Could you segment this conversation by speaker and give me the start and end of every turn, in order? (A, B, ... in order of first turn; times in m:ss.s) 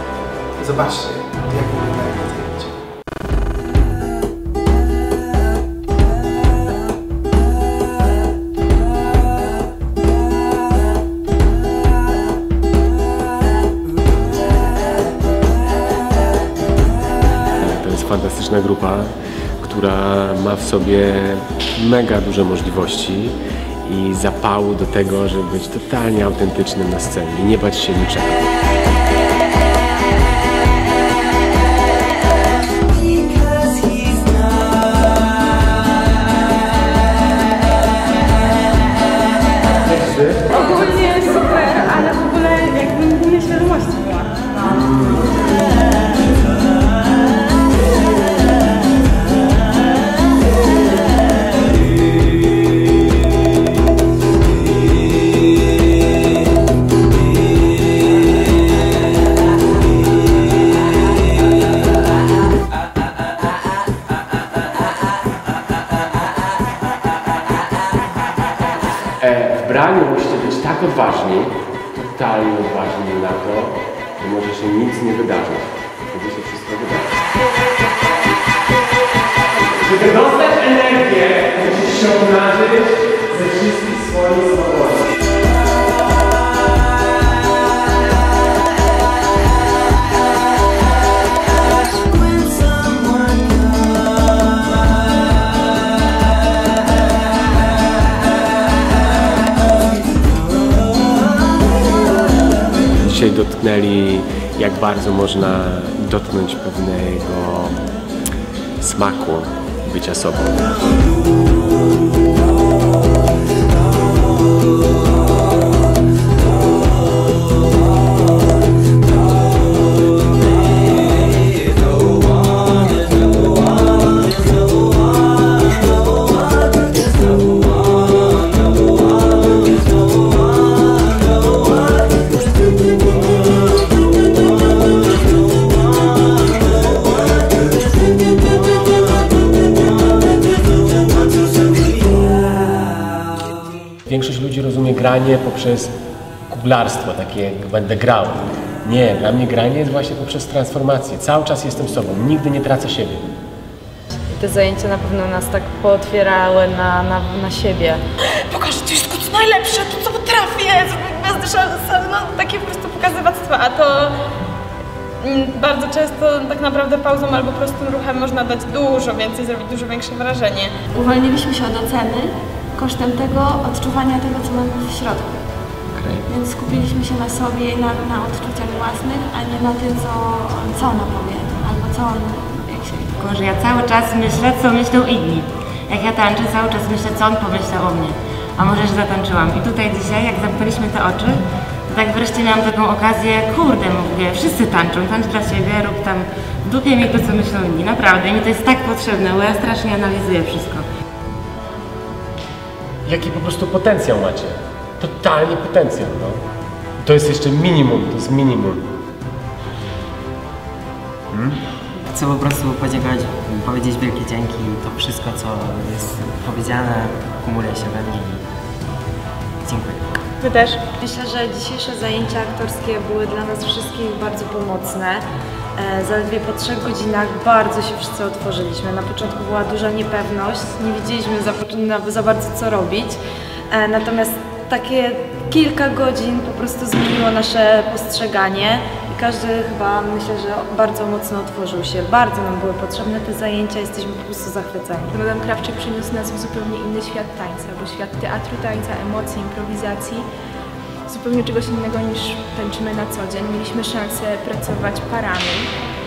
0:00.6-0:02.7 A
0:17.6-0:28.4 B
0:39.8-0:40.4 B
0:40.5-0:44.3 C
0:44.6-0:45.6 B
1:09.2-1:17.2 B
1:19.6-1:25.1 B
1:42.9-1:47.8 B
1:48.8-1:50.7 B
2:24.1-2:25.9 B
2:26.5-2:33.3 B
2:34.3-2:38.0 D
2:38.5-2:44.1 E
2:45.2-2:50.8 E
2:50.9-2:55.3 C
2:56.3-3:03.1 C
3:03.2-3:20.8 F
3:23.0-3:26.4 B
3:27.0-3:28.8 B
3:32.1-3:38.4 G
3:39.6-3:40.1 G
3:40.4-3:40.8 E
3:41.0-3:45.2 D
3:45.8-3:53.2 D
3:53.7-4:05.1 D
4:05.1-4:10.2 H
4:11.1-4:15.7 H